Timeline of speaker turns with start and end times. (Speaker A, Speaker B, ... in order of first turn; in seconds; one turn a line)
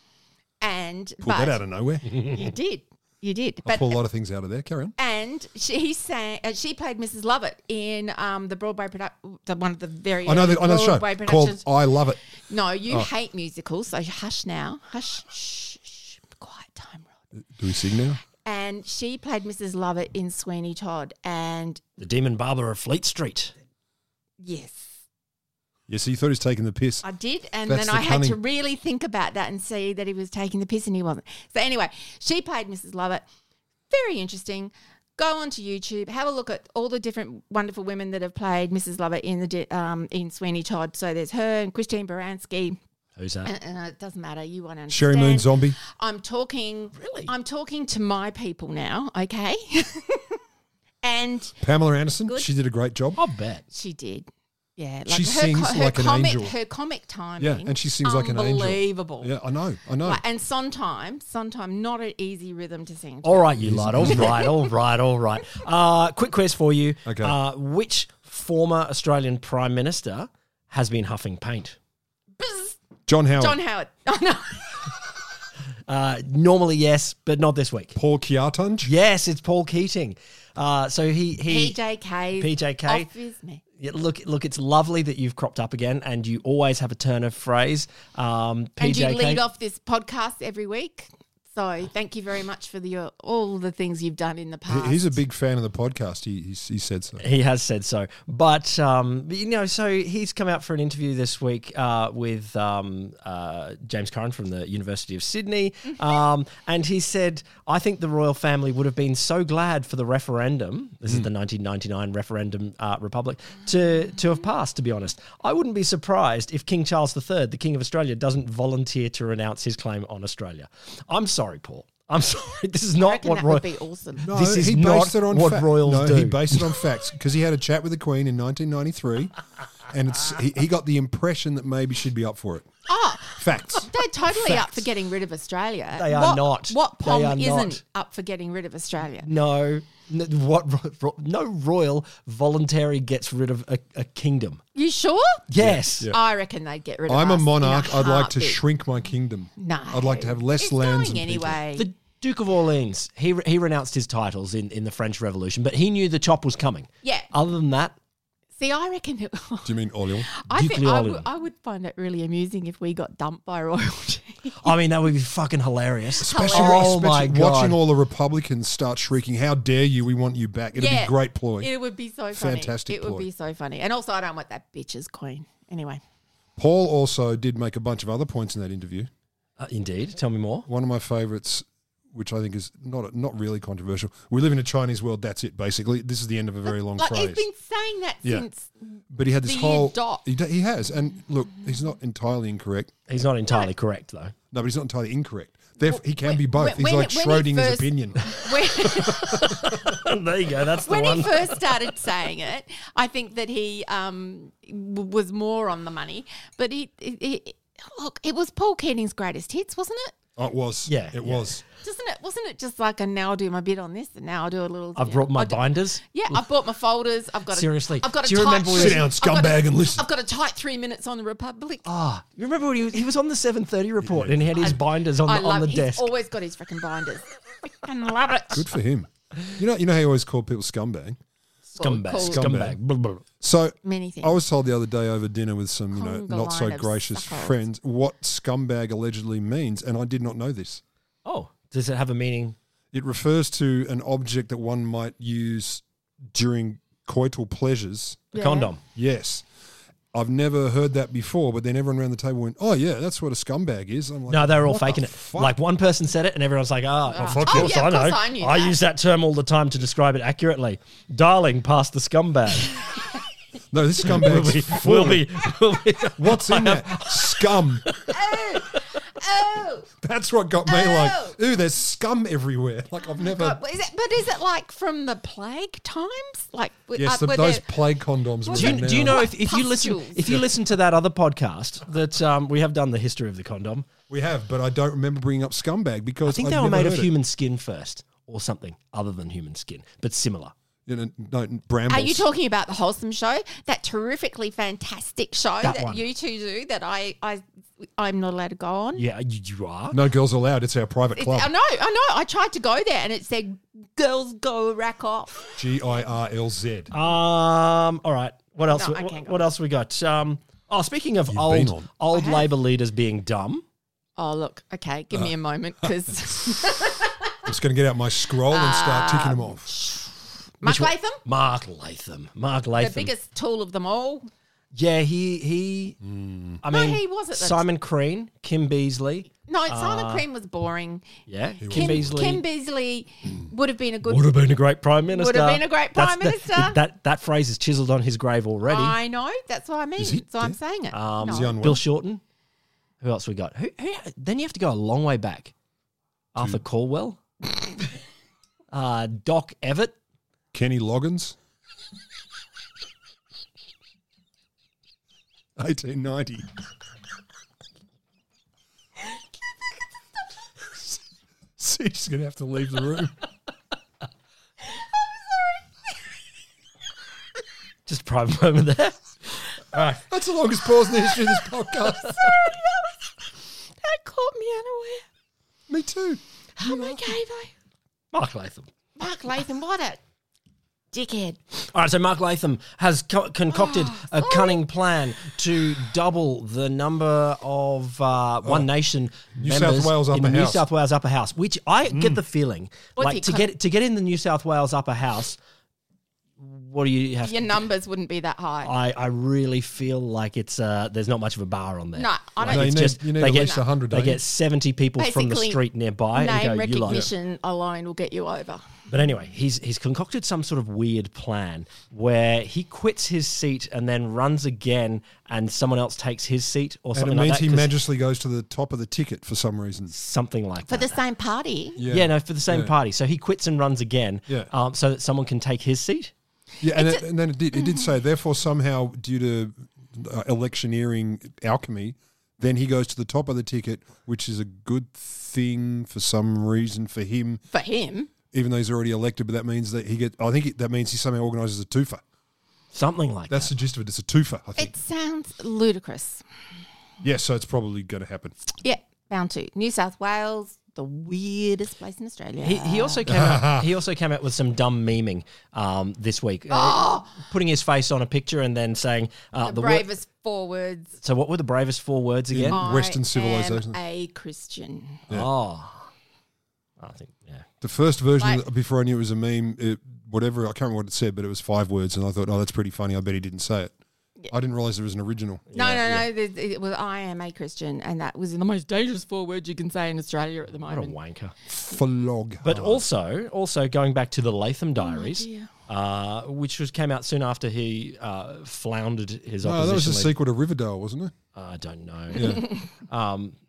Speaker A: 0.6-1.6
Speaker B: 1.2-2.2
Speaker A: 2.2-4.0
Speaker B: 3.7-4.9
Speaker A: 5.0-11.7
Speaker B: 10.2-12.2
Speaker A: 12.4-17.1
Speaker B: 17.6-18.2
Speaker A: 18.4-21.8
Speaker C: 22.0-23.5
Speaker A: 24.4-24.9
Speaker B: 25.9-27.0
Speaker A: 27.0-33.2
Speaker B: 27.6-28.4
Speaker A: 33.9-42.8
Speaker C: 43.2-43.5
Speaker A: 43.5-50.4
Speaker B: 44.9-45.8
Speaker C: 47.0-47.3
Speaker A: 51.0-51.6
Speaker B: 51.6-53.2
Speaker C: 53.2-53.6
Speaker A: 53.7-59.3
Speaker B: 55.1-56.6
Speaker B: 57.4-60.2
Speaker A: 60.0-63.5
Speaker C: 63.2-71.8
Speaker B: 63.6-64.5
Speaker A: 64.0-64.7
Speaker B: 67.1-67.4
Speaker A: 72.4-72.8
Speaker B: 73.1-73.6
Speaker A: 73.4-74.9
Speaker C: 75.9-78.0
Speaker B: 77.9-78.9
Speaker C: 78.8-81.8
Speaker A: 81.5-83.6
Speaker C: 82.4-83.1
Speaker C: 83.8-89.4
Speaker A: 88.8-95.2
Speaker B: 94.7-97.2
Speaker C: 97.2-123.7
Speaker A: 123.0-124.3
Speaker B: 124.2-129.3
Speaker C: 124.2-126.7
Speaker B: 129.9-134.0
Speaker A: 132.9-139.3
Speaker C: 134.3-134.8
Speaker C: 135.9-137.8
Speaker C: 139.2-144.6
Speaker A: 144.8-145.4
Speaker C: 145.5-146.1
Speaker B: 145.6-146.2
Speaker A: 146.1-148.6
Speaker B: 147.1-151.6
Speaker A: 149.6-151.9
Speaker C: 151.8-157.9
Speaker A: 157.0-157.3
Speaker A: 158.6-159.7
Speaker B: 159.7-160.3
Speaker A: 160.3-164.7
Speaker C: 160.5-161.2
Speaker C: 164.6-167.8
Speaker A: 166.2-166.8
Speaker B: 166.2-171.7
Speaker A: 170.8-176.0
Speaker B: 172.3-173.3
Speaker B: 176.6-179.1
Speaker C: 179.6-180.7
Speaker B: 180.7-187.5
Speaker A: 186.7-190.3
Speaker B: 189.1-193.0
Speaker C: 193.1-194.3
Speaker B: 194.5-199.5
Speaker A: 195.8-199.8
Speaker C: 198.2-201.9
Speaker A: 200.8-210.1
Speaker B: 210.4-211.6
Speaker C: 210.9-211.6
Speaker A: 211.8-221.9
Speaker C: 215.0-216.4
Speaker C: 217.5-219.1
Speaker B: 218.7-220.1
Speaker C: 221.8-226.1
Speaker B: 224.0-224.8
Speaker A: 224.6-228.7
Speaker B: 228.5-231.2
Speaker A: 231.7-232.5
Speaker C: 231.8-233.2
Speaker B: 232.2-232.8
Speaker B: 233.4-240.8
Speaker A: 233.8-234.3
Speaker A: 235.9-237.6
Speaker C: 241.2-242.6
Speaker B: 242.9-248.3
Speaker A: 248.3-248.7
Speaker C: 248.3-248.8
Speaker B: 248.9-249.4
Speaker B: 250.1-255.6
Speaker C: 254.3-262.9
Speaker A: 257.1-258.8
Speaker B: 257.2-257.8
Speaker B: 263.7-265.3
Speaker C: 264.0-268.8
Speaker B: 266.2-267.9
Speaker A: 268.1-269.9
Speaker B: 270.0-273.6
Speaker A: 270.7-271.4
Speaker A: 273.1-277.7
Speaker B: 277.0-279.2
Speaker A: 278.4-280.4
Speaker C: 278.6-283.9
Speaker B: 284.1-287.1
Speaker C: 286.3-290.5
Speaker B: 290.9-292.2
Speaker A: 291.9-299.0
Speaker C: 295.6-296.0
Speaker C: 299.0-300.0
Speaker B: 299.9-301.5
Speaker A: 301.1-305.6
Speaker B: 305.6-306.9
Speaker C: 306.9-313.6
Speaker A: 308.7-309.4
Speaker B: 311.3-311.9
Speaker A: 312.1-312.4
Speaker A: 314.2-317.4
Speaker B: 317.4-319.7
Speaker A: 318.5-321.2
Speaker C: 320.6-323.1
Speaker A: 322.8-324.3
Speaker C: 324.7-326.0
Speaker B: 326.0-326.6
Speaker C: 326.6-330.3
Speaker A: 326.7-327.6
Speaker A: 329.5-331.1
Speaker C: 331.3-332.4
Speaker B: 331.6-332.3
Speaker A: 331.7-334.4
Speaker C: 334.1-339.0
Speaker A: 335.1-336.8
Speaker A: 338.6-341.5
Speaker B: 340.0-340.6
Speaker C: 340.9-342.2
Speaker B: 341.2-341.8
Speaker C: 343.0-345.5
Speaker C: 346.3-347.2
Speaker C: 348.7-349.9
Speaker B: 350.5-351.4
Speaker B: 355.6-356.5
Speaker B: 361.6-363.1
Speaker C: 367.9-370.0
Speaker B: 370.0-372.3
Speaker A: 372.0-372.9
Speaker A: 373.8-375.1
Speaker B: 375.7-377.1
Speaker A: 376.6-377.5
Speaker C: 378.1-378.7
Speaker A: 379.0-380.0
Speaker A: 380.9-381.4
Speaker C: 381.7-395.4
Speaker A: 383.5-384.6
Speaker B: 388.4-388.7
Speaker B: 389.4-390.6
Speaker B: 391.9-392.2
Speaker A: 393.0-393.5
Speaker C: 396.4-397.5
Speaker A: 397.2-398.7
Speaker C: 398.6-407.1
Speaker A: 401.9-403.6
Speaker B: 402.4-404.2
Speaker A: 405.0-405.6
Speaker A: 406.1-408.6
Speaker C: 408.9-417.7
Speaker B: 416.9-419.9
Speaker C: 419.9-421.0
Speaker A: 420.7-421.8
Speaker B: 421.8-422.7
Speaker C: 421.9-426.1
Speaker B: 426.6-437.4
Speaker A: 426.8-427.9
Speaker A: 437.5-438.1
Speaker B: 438.3-442.0
Speaker C: 442.7-443.5
Speaker B: 443.3-444.8
Speaker A: 444.6-446.2
Speaker B: 447.0-448.4
Speaker A: 448.6-453.0
Speaker C: 452.4-459.9
Speaker B: 453.1-453.7
Speaker A: 456.5-457.2
Speaker A: 459.4-460.9
Speaker C: 461.0-462.6
Speaker B: 462.3-463.8
Speaker A: 462.5-465.1
Speaker C: 465.1-465.9
Speaker C: 466.8-467.5
Speaker B: 467.6-473.7
Speaker B: 474.3-475.5
Speaker C: 475.5-476.1
Speaker A: 475.5-481.0
Speaker C: 480.7-481.3
Speaker B: 481.5-482.9
Speaker C: 482.4-490.2
Speaker A: 484.8-485.5
Speaker B: 489.4-491.1
Speaker C: 491.4-493.4
Speaker B: 492.2-492.4